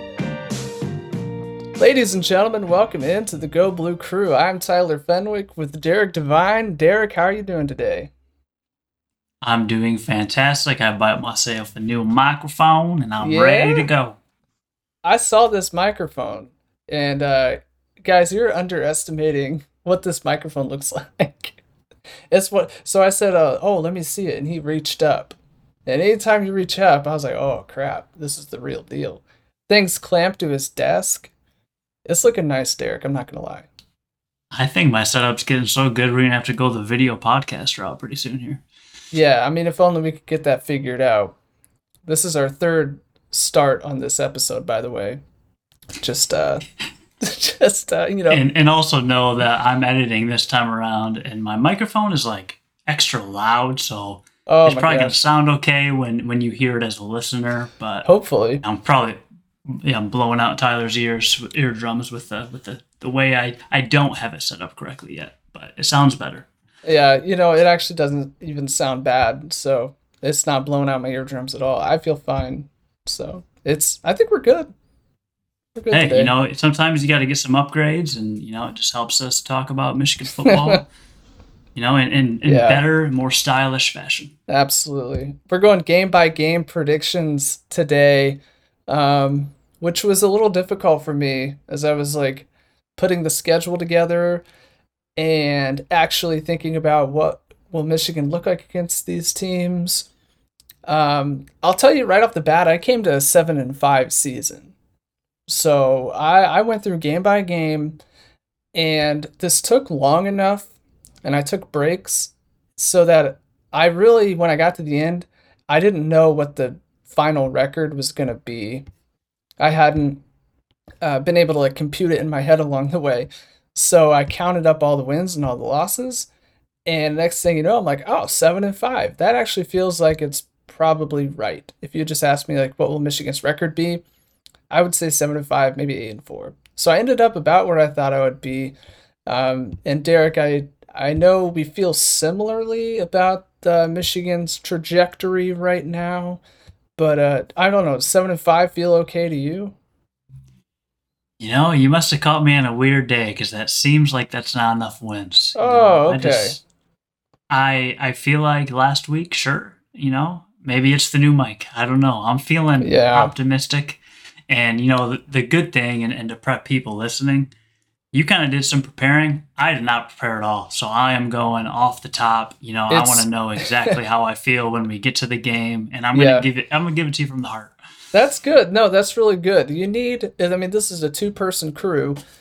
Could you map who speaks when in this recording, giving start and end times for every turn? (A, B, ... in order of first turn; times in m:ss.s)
0:01.8-0:08.1 A
0:09.4-0:14.2 B
0:13.2-0:13.9 A
0:15.0-0:21.6 A
0:22.3-0:31.3 A
0:32.0-0:33.7 A
0:34.5-0:38.6 B
0:39.1-0:41.4 A
0:42.0-0:45.2 A
0:46.0-0:46.6 A
0:47.2-0:48.4 A
0:48.3-0:58.0 B
0:54.5-0:55.2 A
0:58.0-0:58.6 A
0:58.6-1:06.5 B
1:06.8-1:14.7 A
1:15.8-1:16.3 A
1:15.9-1:20.9 B
1:20.4-1:20.8 A
1:21.7-1:24.3 B
1:22.4-1:22.8 A
1:24.5-1:34.4 A
1:35.2-1:40.1 A
1:40.9-1:44.7 A
1:45.5-1:48.0 A
1:48.7-1:50.7 A
1:51.2-1:58.8 A
1:59.6-2:00.2 A
2:01.0-2:06.3 A
2:06.8-2:14.0 A
2:14.7-2:18.7 A
2:19.3-2:26.4 A
2:27.0-2:29.8 A
2:31.4-2:36.6 B
2:35.6-2:36.6 A
2:37.5-2:47.5 B
2:42.8-2:43.3 A
2:48.1-2:57.8 B
2:52.9-2:54.0 A
2:56.1-2:56.4 A
2:58.1-3:02.2 A